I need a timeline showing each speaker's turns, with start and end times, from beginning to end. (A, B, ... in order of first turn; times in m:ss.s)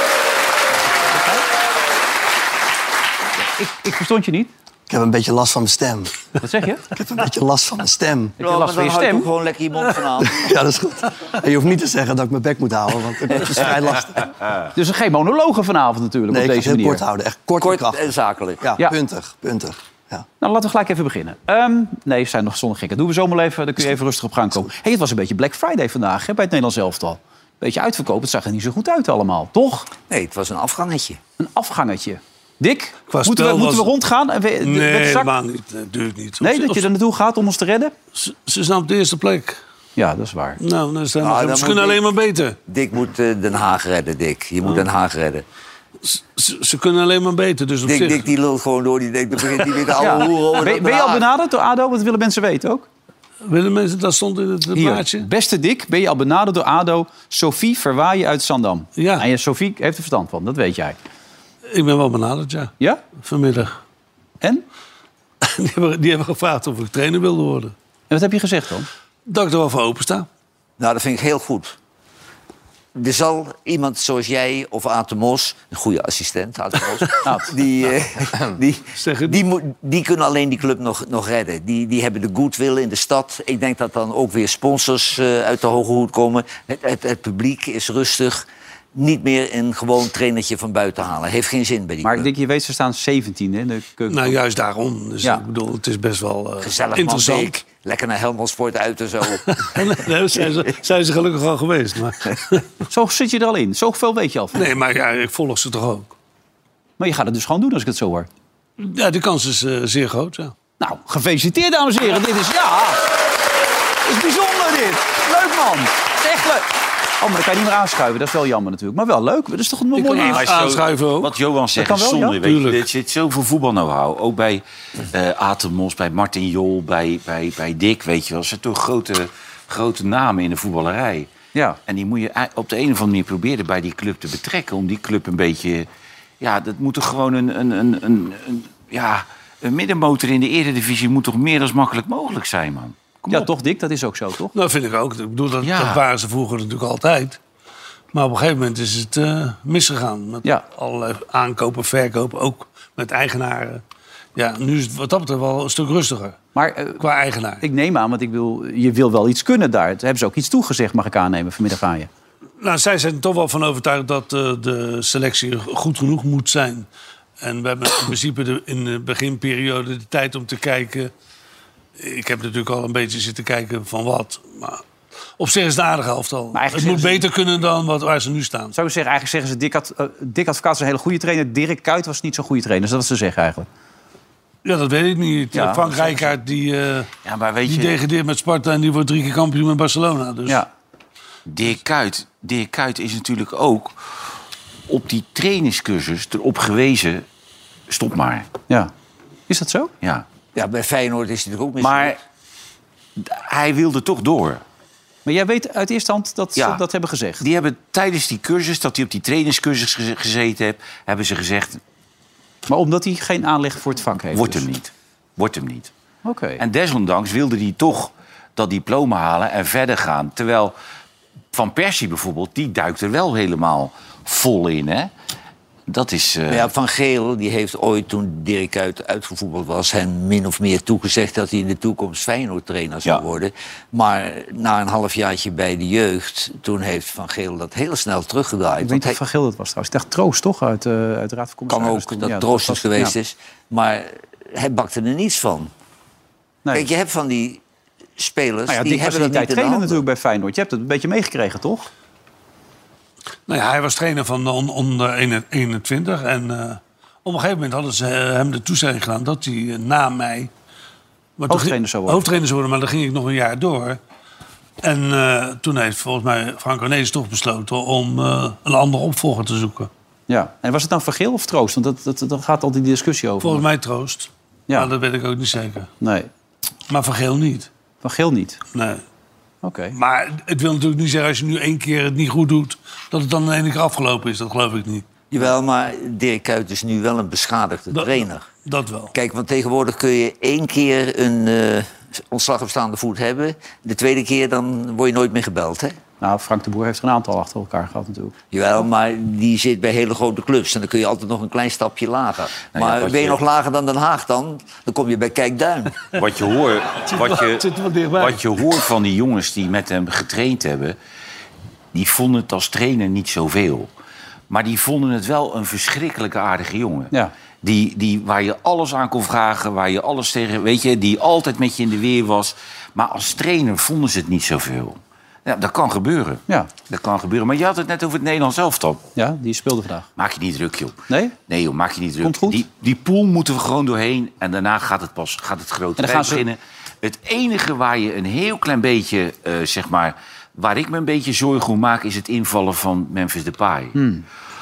0:01.1-0:01.4 A
0:03.6-0:04.5 A
0:04.9-0:06.1 B
0:06.4-0:06.9 A
0:06.9-0:08.3 B
0:08.4-0:09.3 A
0:08.4-0:10.4 C
0:10.2-0:14.3 B
0:14.7-0:17.0 A
0:16.3-0:18.0 B
0:17.6-0:18.6 C
0:18.6-0:20.2 B
0:20.4-0:29.9 A
0:30.1-0:31.2 C
0:31.4-0:35.3 A
0:33.1-0:33.9 D
0:34.6-0:36.8 D
0:36.4-0:37.9 A
0:38.1-0:39.6 D
0:40.0-0:40.6 A
0:40.6-0:42.6 D
0:41.2-0:42.0 C
0:42.7-0:45.4 C
0:46.0-0:48.3 D
0:47.8-0:51.2 C
0:49.9-0:52.9 A
0:53.4-0:55.3 D
0:54.7-1:01.0 A
0:59.0-0:59.2 D
1:01.7-1:03.8 D
1:05.4-1:07.7 D
1:08.1-1:08.9 A
1:09.2-1:10.2 D
1:10.8-1:11.7 C
1:12.9-1:32.3 C
1:17.2-1:17.5 A
1:19.0-1:19.4 D
1:32.0-1:34.4 A
1:34.1-1:37.6 D
1:36.6-1:39.8 C
1:39.5-1:42.6 D
1:42.9-1:44.7 A
1:44.5-1:46.1 D
1:47.0-1:48.3 A
1:48.8-1:50.6 D
1:50.8-1:53.0 A
1:54.0-2:00.4 A
2:00.0-2:01.3 D
2:00.2-2:11.3 E
2:01.8-2:02.4 A
2:02.4-2:02.8 D
2:11.9-2:15.9 E
2:16.4-2:23.5 E
2:23.3-2:24.5 A
2:24.5-2:27.4 D
2:25.6-2:26.0 E
2:28.1-2:33.8 D
2:34.3-2:36.4 D
2:36.5-2:37.0 A
2:37.0-2:37.6 D
2:37.6-2:42.1 A
2:42.6-2:46.9 D
2:47.4-2:51.1 D
2:52.0-2:54.8 D
2:55.4-2:58.7 D
2:56.5-2:57.2 A
2:58.7-3:03.7 A
3:04.6-3:07.1 D
3:05.5-3:06.1 A
3:07.2-3:08.0 E
3:07.6-3:10.6 D
3:11.5-3:14.0 E
3:14.9-3:17.2 E
3:17.9-3:18.5 E
3:19.5-3:19.9 A
3:20.5-3:22.2 C
3:21.8-3:22.1 E
3:23.2-3:24.6 E
3:25.2-3:27.4 A
3:26.6-3:26.8 E
3:27.4-3:31.8 E
3:32.7-3:34.6 A
3:34.3-3:35.9 E
3:36.2-3:36.6 A
3:36.6-3:40.7 E
3:41.5-3:45.1 E
3:45.9-3:46.7 E
3:46.5-3:59.2 C
3:58.8-4:03.2 A
4:01.7-4:05.7 C
4:06.7-4:07.6 C
4:08.2-4:10.0 C
4:08.7-4:11.9 A
4:13.5-4:20.5 D
4:21.4-4:24.0 D
4:21.5-4:22.2 A
4:24.8-4:29.9 D
4:30.3-4:33.6 A
4:33.4-4:35.9 D
4:36.0-4:36.3 A
4:36.9-4:37.7 D
4:38.0-4:38.6 A
4:38.7-4:39.0 D
4:39.6-4:40.0 A
4:39.9-4:45.0 D
4:45.3-4:48.5 C
4:47.9-4:49.1 D
4:49.1-4:56.0 C
4:56.2-4:58.3 A
4:58.5-5:06.0 C
5:02.7-5:03.4 E
5:06.1-5:07.6 E
5:07.1-5:08.4 D
5:08.2-5:11.0 E
5:11.9-5:13.9 E
5:14.5-5:29.0 E
5:29.2-5:30.1 A
5:30.2-5:44.0 E
5:31.1-5:31.4 A
5:32.2-5:32.6 A
5:36.0-5:36.4 A
5:43.9-5:44.2 A